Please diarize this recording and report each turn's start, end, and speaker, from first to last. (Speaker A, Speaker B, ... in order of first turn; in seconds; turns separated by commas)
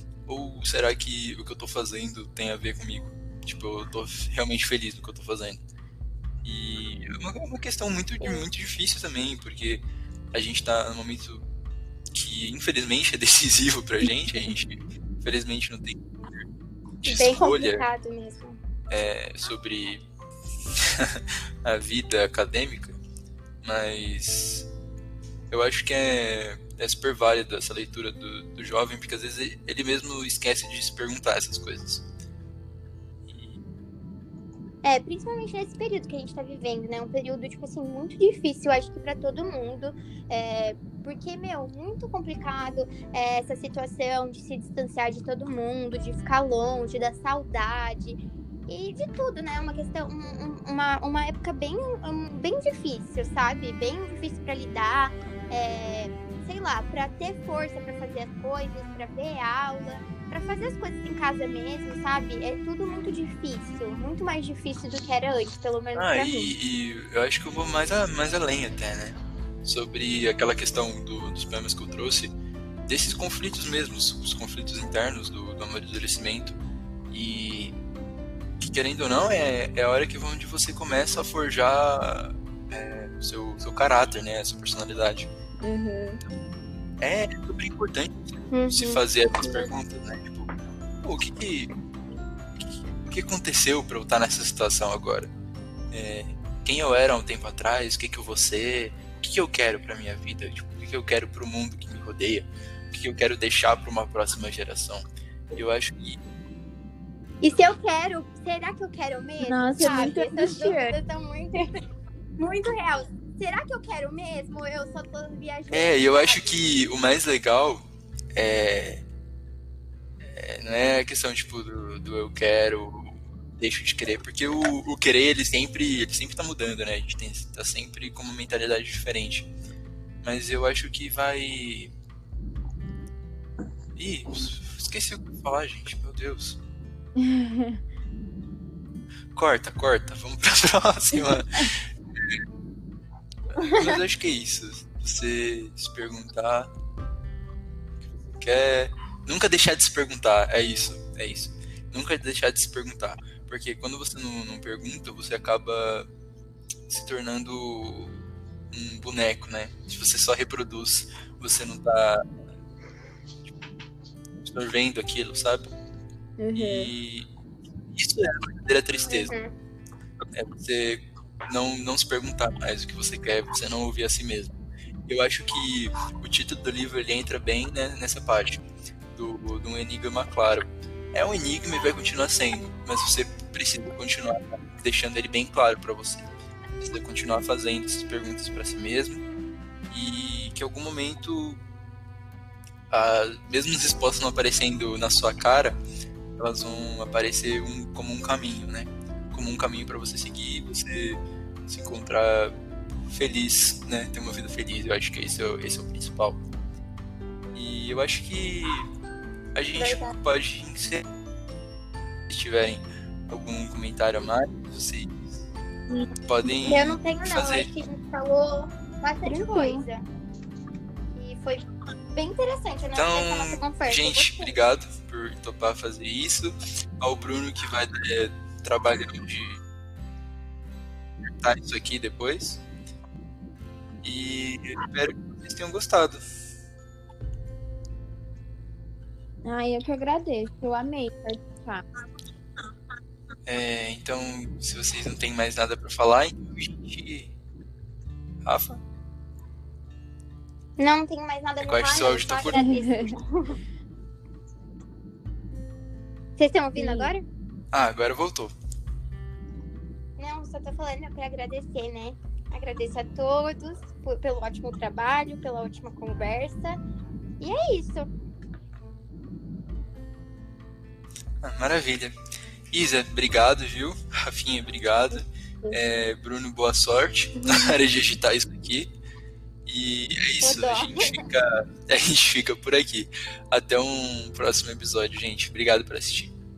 Speaker A: 0.3-5.6, Speaker A: 6.4-11.4, Speaker A: 12.1-16.1, Speaker A: 17.0-17.9, Speaker B: 17.0-18.6, Speaker A: 18.9-20.0, Speaker A: 20.7-23.0, Speaker A: 23.6-24.7, Speaker A: 25.5-32.0, Speaker A: 33.3-33.6, Speaker B: 34.8-66.5, Speaker A: 65.9-72.3, Speaker A: 72.8-76.5, Speaker A: 77.1-77.8, Speaker A: 78.6-85.3, Speaker C: 85.6-86.2, Speaker A: 87.0-91.7, Speaker B: 88.5-89.7, Speaker A: 92.6-95.3, Speaker A: 95.9-106.2, Speaker B: 107.4-111.7, Speaker C: 109.4-111.0, Speaker B: 112.4-116.6, Speaker A: 115.7-117.8, Speaker A: 118.3-119.0, Speaker A: 120.2-129.5, Speaker A: 130.2-131.9, Speaker A: 133.9-136.6, Speaker C: 137.2-137.8, Speaker A: 139.3-142.4, Speaker A: 143.5-146.7, Speaker B: 143.6-143.9, Speaker A: 148.3-156.1, Speaker A: 156.9-162.2, Speaker A: 164.4-165.7, Speaker C: 166.4-166.9, Speaker A: 166.5-167.3, Speaker A: 167.9-169.3, Speaker B: 169.1-169.5, Speaker A: 170.3-174.5, Speaker A: 175.1-178.6, Speaker A: 179.1-186.3, Speaker A: 186.8-189.2, Speaker A: 189.9-191.6, Speaker A: 192.9-195.8, Speaker A: 196.4-202.5, Speaker A: 203.1-206.4, Speaker A: 207.5-208.9, Speaker A: 209.5-211.0, Speaker B: 209.8-210.1, Speaker A: 212.3-215.4, Speaker A: 216.2-217.7, Speaker B: 216.6-220.1, Speaker C: 219.2-219.8, Speaker B: 221.1-224.6, Speaker A: 222.9-229.6, Speaker A: 231.3-232.6, Speaker A: 234.0-236.2, Speaker C: 239.4-241.8, Speaker A: 243.5-247.3, Speaker A: 248.4-248.8, Speaker B: 250.8-253.6, Speaker A: 251.6-252.8, Speaker C: 252.5-253.1, Speaker B: 256.4-257.2, Speaker C: 256.7-257.1, Speaker A: 257.7-258.5, Speaker B: 260.2-266.8, Speaker B: 267.4-268.1, Speaker A: 271.4-272.1, Speaker A: 272.7-278.9, Speaker A: 279.6-286.3, Speaker B: 280.4-281.2